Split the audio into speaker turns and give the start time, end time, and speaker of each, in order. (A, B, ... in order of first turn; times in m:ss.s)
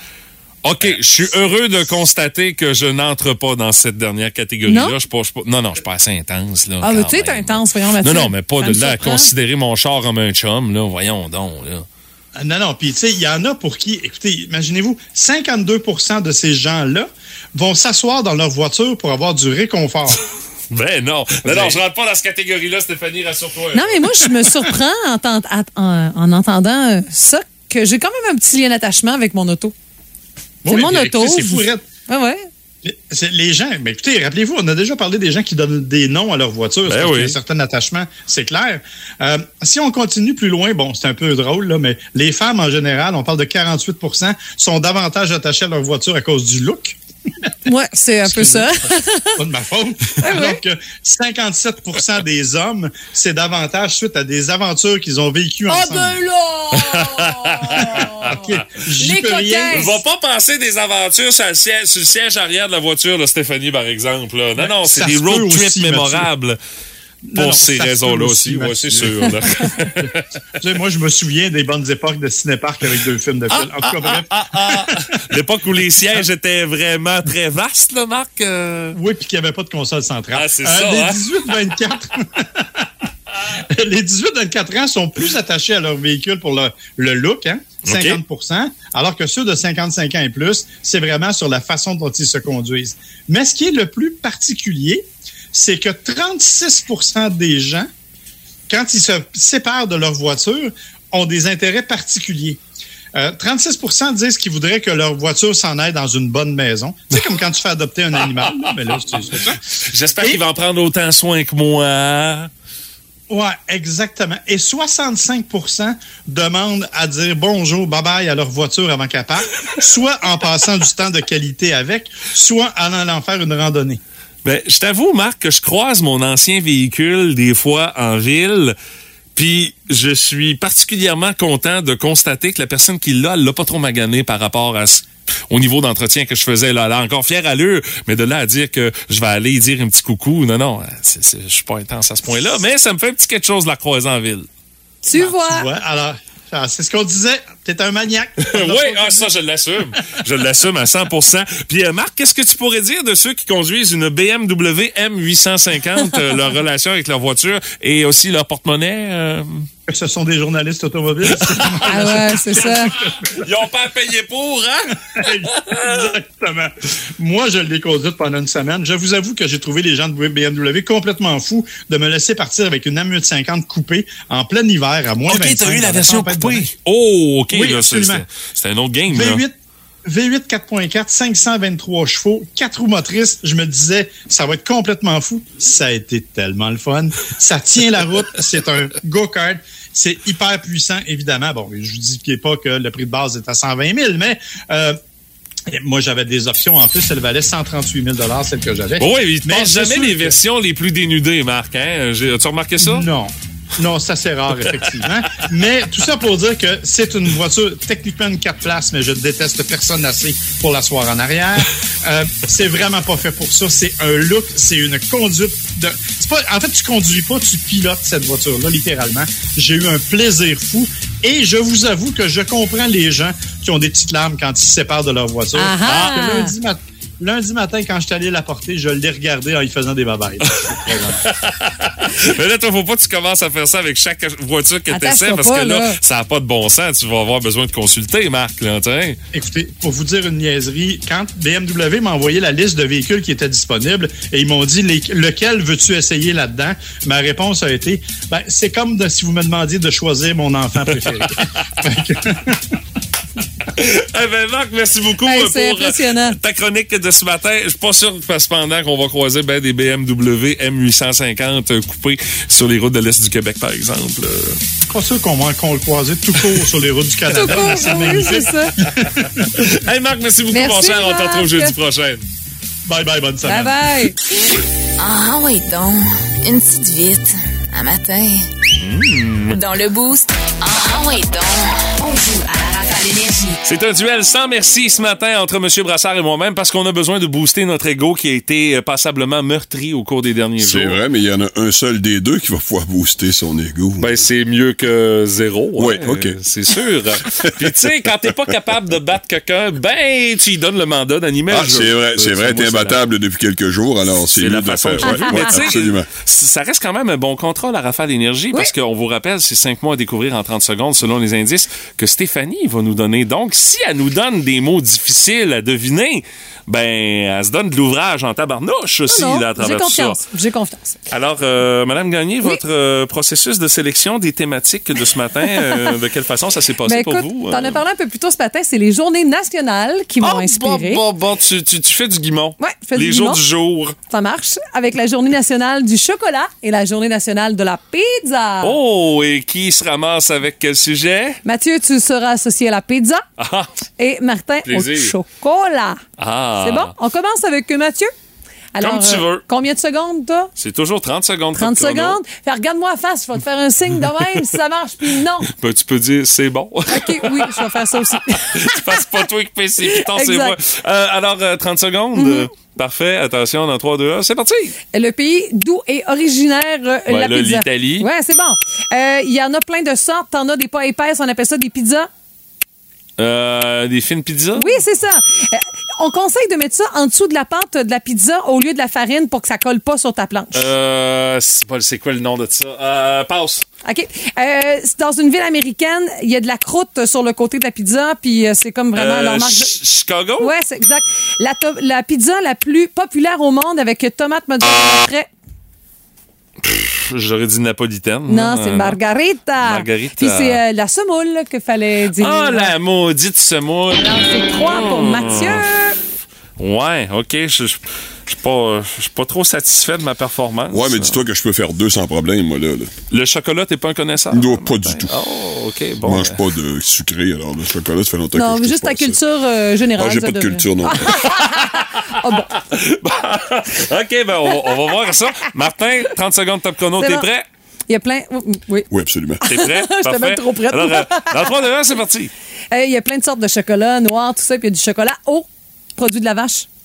0:00.6-0:11.9 A
0:04.7-0:05.0 B
0:06.8-0:09.3 B
0:12.4-0:20.2 C
0:20.7-0:24.4 A
0:21.4-0:21.8 C
0:23.7-0:29.7 B
0:30.6-0:31.8 C
0:30.7-0:32.5 B
0:32.8-0:47.0 C
0:36.9-0:37.4 A
0:47.7-0:49.4 B
0:48.2-0:56.2 C
0:50.2-0:50.6 B
0:55.7-1:00.0 B
0:56.7-0:58.6 A
0:58.3-1:00.0 C
0:59.7-1:06.6 A
1:04.6-1:06.3 C
1:07.3-1:15.4 C
1:07.4-1:10.3 A
1:13.5-1:19.0 A
1:18.9-1:22.8 C
1:20.3-1:21.3 A
1:23.5-1:37.9 C
1:27.8-1:28.2 A
1:38.7-1:42.6 C
1:43.2-1:49.6 C
1:48.3-1:49.3 A
1:49.9-1:52.5 A
1:53.3-2:04.0 C
2:04.4-2:08.8 A
2:09.4-2:24.5 A
2:25.0-2:25.7 B
2:25.1-2:29.3 C
2:28.4-2:39.7 A
2:39.9-2:43.4 C
2:41.3-2:46.2 A
2:41.8-2:43.0 B
2:45.2-2:56.7 C
2:55.2-2:59.4 A
2:57.5-2:58.3 C
2:59.1-2:59.5 C
3:00.0-3:15.0 C
3:15.7-3:20.4 C
3:19.0-3:23.1 A
3:22.8-3:51.2 C
3:45.6-3:46.5 B
3:50.4-3:59.2 A
3:54.9-3:56.0 B
3:59.3-4:12.8 C
4:13.7-4:24.6 A
4:15.2-4:16.4 B
4:24.9-4:29.5 C
4:27.3-4:28.8 B
4:29.5-4:32.2 A
4:30.5-4:31.8 B
4:32.9-4:33.8 C
4:33.4-4:34.2 B
4:35.0-4:38.5 D
4:38.8-4:39.6 A
4:39.5-4:43.6 D
4:43.6-4:51.0 A
4:50.6-4:54.2 E
4:54.0-5:03.0 A
4:55.8-4:56.4 E
4:57.2-4:57.8 E
5:01.5-5:06.1 E
5:04.4-5:20.2 A
5:05.0-5:05.7 B
5:19.1-5:21.0 B
5:21.1-5:27.8 A
5:25.5-5:25.9 B
5:26.9-5:31.0 B
5:30.2-5:34.0 A
5:32.6-5:33.4 B
5:34.1-5:38.8 B
5:38.6-5:41.4 A
5:41.4-5:43.2 B
5:43.4-5:43.7 A
5:44.0-5:46.0 B
5:44.7-5:45.1 A
5:46.2-5:46.9 A
5:46.6-5:48.1 B
5:48.8-5:50.5 B
5:48.8-5:49.4 A
5:50.6-5:52.2 A
5:51.6-5:55.5 B
5:55.5-6:04.8 A
5:56.9-5:59.0 B
5:59.8-6:00.6 B
6:02.2-6:02.5 B
6:04.9-6:12.1 B
6:07.1-6:08.1 A
6:13.2-6:14.8 A
6:14.6-6:20.7 B
6:20.5-6:23.6 A
6:23.8-6:29.8 B
6:29.0-6:30.5 A
6:30.4-6:35.3 B
6:36.6-6:39.0 A
6:38.3-6:42.7 B
6:39.6-6:40.6 A
6:42.2-6:45.7 A
6:43.9-6:46.0 B
6:46.6-6:51.2 A
6:50.7-6:52.9 E
6:53.1-6:56.4 A
6:54.3-6:55.2 E
6:56.0-6:59.2 E
6:58.3-7:02.5 B
7:00.0-7:01.2 E
7:01.0-7:07.4 A
7:07.0-7:07.3 B
7:07.9-7:08.9 B
7:08.9-7:09.4 E
7:09.4-7:11.5 B
7:09.4-7:12.3 A
7:12.7-7:16.7 B